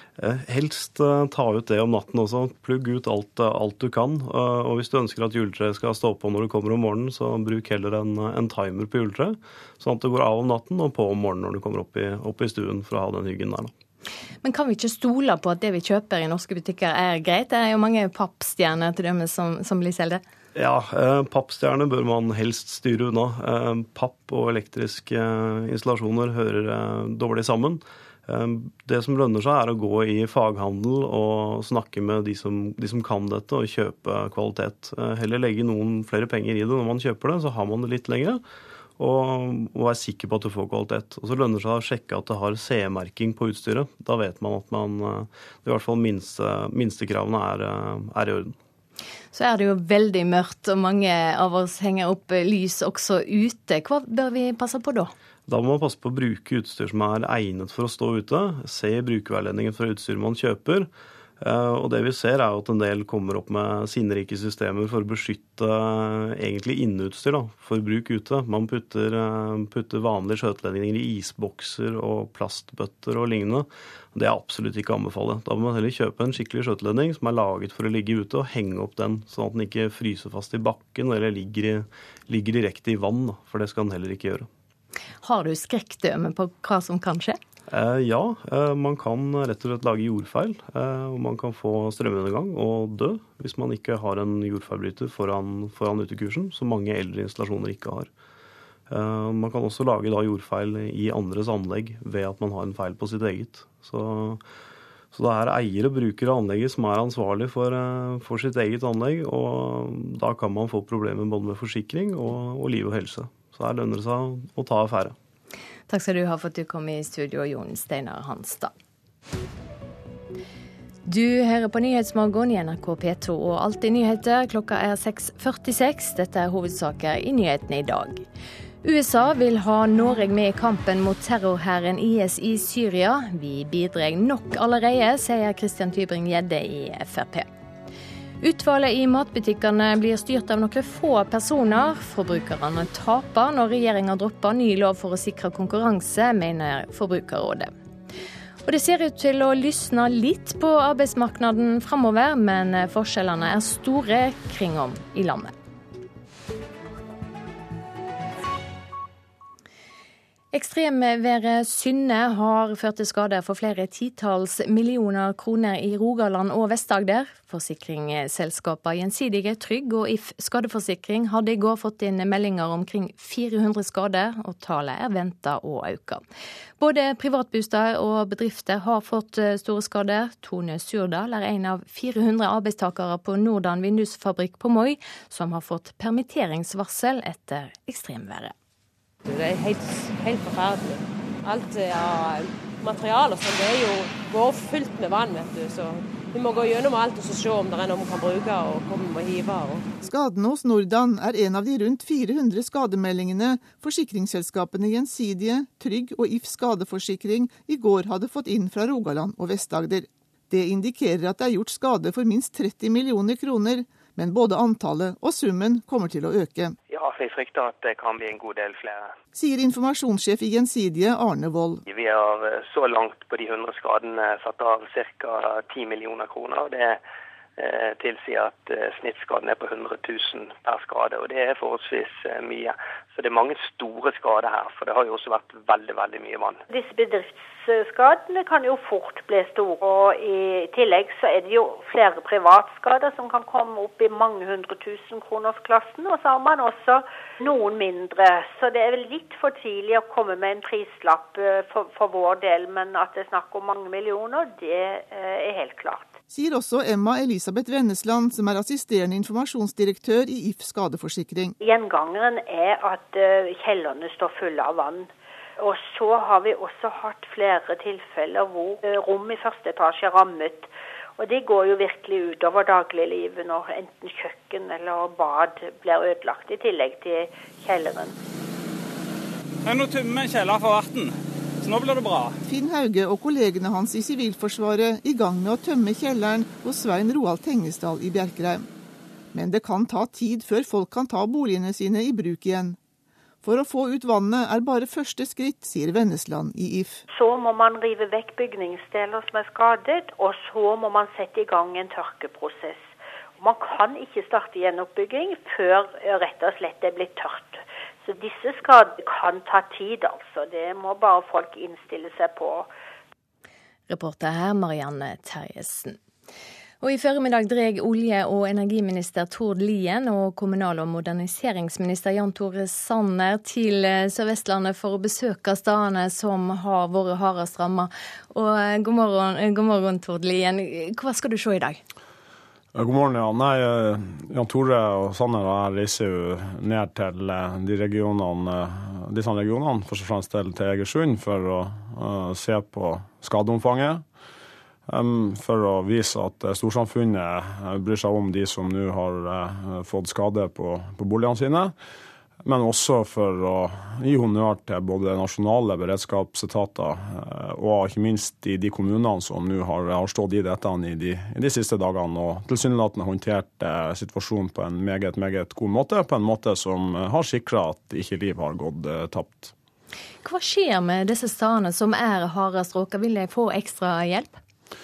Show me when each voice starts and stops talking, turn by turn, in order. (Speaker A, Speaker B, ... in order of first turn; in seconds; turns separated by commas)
Speaker A: 0.2-13.7, Speaker B: 14.4-20.2, Speaker A: 20.5-38.4, Speaker A: 39.0-48.5, Speaker B: 49.3-55.1, Speaker A: 55.5-60.9, Speaker A: 61.4-84.5, Speaker B: 85.2-87.4, Speaker A: 87.7-98.1, Speaker A: 98.9-104.4, Speaker A: 105.1-115.1, Speaker B: 115.9-118.7, Speaker B: 121.0-128.2, Speaker B: 128.8-137.4, Speaker B: 138.4-147.7, Speaker B: 148.7-155.5, Speaker B: 160.5-176.2, Speaker B: 176.8-188.5, Speaker C: 189.2-199.8, Speaker D: 200.0-216.8, Speaker E: 216.9-219.1, Speaker D: 219.3-221.8, Speaker E: 221.9-227.0, Speaker E: 227.6-236.6, Speaker F: 236.7-256.1, Speaker D: 256.3-261.5, Speaker F: 261.6-278.1, Speaker G: 279.6-282.4, Speaker D: 282.4-288.7, Speaker D: 289.3-292.8, Speaker D: 293.4-297.0, Speaker F: 297.1-312.7, Speaker B: 313.9-316.0, Speaker B: 316.8-331.8, Speaker H: 332.7-344.0, Speaker H: 344.9-351.7, Speaker H: 352.4-369.5, Speaker B: 370.2-374.4